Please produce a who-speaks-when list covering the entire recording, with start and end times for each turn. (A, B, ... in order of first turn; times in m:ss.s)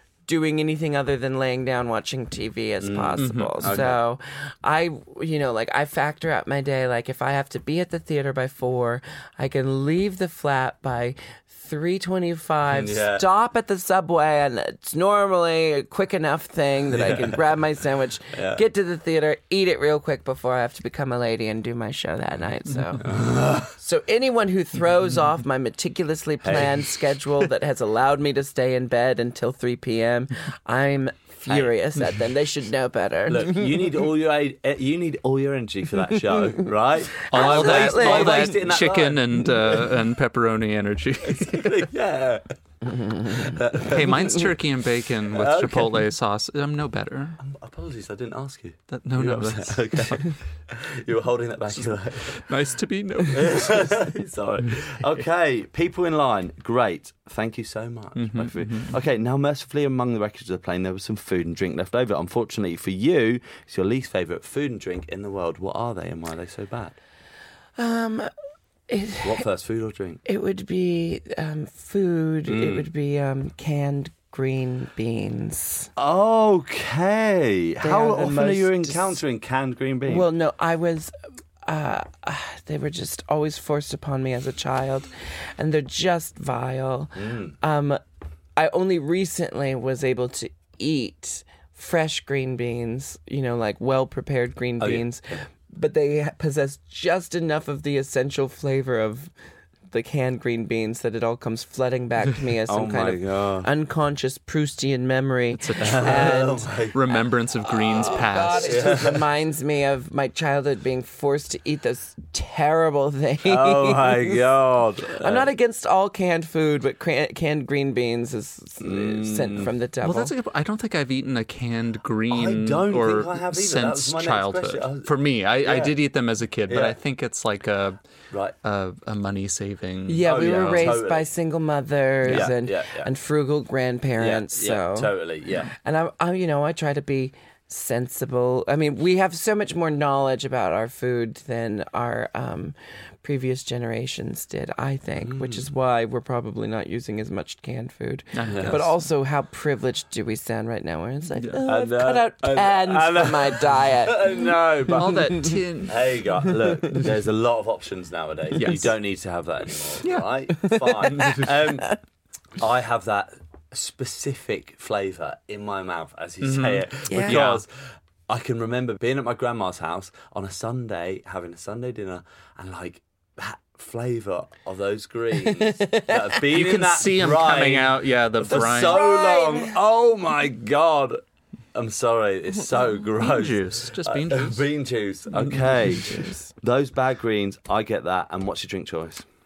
0:00.3-0:23.1 A
0:02.8-0:04.0 B
0:03.2-0:03.7 C
0:12.7-0:13.2 B
0:16.9-0:17.4 B
0:18.3-0:18.6 B
0:23.0-0:23.7 B
0:23.8-0:34.0 A
0:26.4-0:26.9 B
0:33.3-0:39.8 B
0:37.2-0:38.8 A
0:37.3-0:41.9 C
0:41.2-0:42.4 B
0:43.1-0:44.5 B
0:43.8-0:47.4 C
0:45.3-0:46.0 B
0:47.4-0:52.4 B
0:48.9-0:50.3 C
0:51.7-0:54.0 C
0:53.3-1:07.0 B
0:58.1-0:59.0 C
1:07.8-1:08.3 A
1:08.9-1:09.4 A
1:09.2-1:10.2 B
1:10.2-1:15.9 A
1:12.5-1:12.9 B
1:16.0-1:20.2 B
1:17.8-1:19.1 A
1:20.1-1:21.1 A
1:21.6-1:28.0 A
1:27.2-1:27.5 B
1:28.6-1:39.3 A
1:34.8-1:35.0 B
1:39.9-1:46.7 A
1:42.7-1:43.7 B
1:45.5-1:48.8 C
1:45.8-1:47.0 B
1:47.6-1:54.4 A
1:48.5-1:49.2 B
1:53.4-1:55.5 B
1:55.2-2:00.3 A
1:58.8-1:59.7 B
2:00.0-2:08.0 C
2:02.3-2:06.0 B
2:06.7-2:07.0 B
2:08.6-2:11.0 C
2:10.1-2:15.1 A
2:10.2-2:11.3 B
2:12.2-2:12.5 C
2:12.2-2:13.1 B
2:14.2-2:15.7 B
2:15.7-2:35.6 A
2:25.2-2:25.6 B
2:28.3-2:28.9 C
2:28.5-2:28.8 B
2:31.6-2:41.9 B
2:34.9-2:36.2 C
2:36.4-2:37.0 A
2:38.6-2:38.9 C
2:40.5-2:42.0 A
2:42.6-2:47.7 B
2:46.4-2:47.6 C
2:48.3-3:01.2 B
2:55.4-2:56.4 A
2:56.4-2:59.0 C
2:58.5-2:59.8 A
3:01.7-3:09.2 B
3:03.2-3:04.7 C
3:05.9-3:06.5 A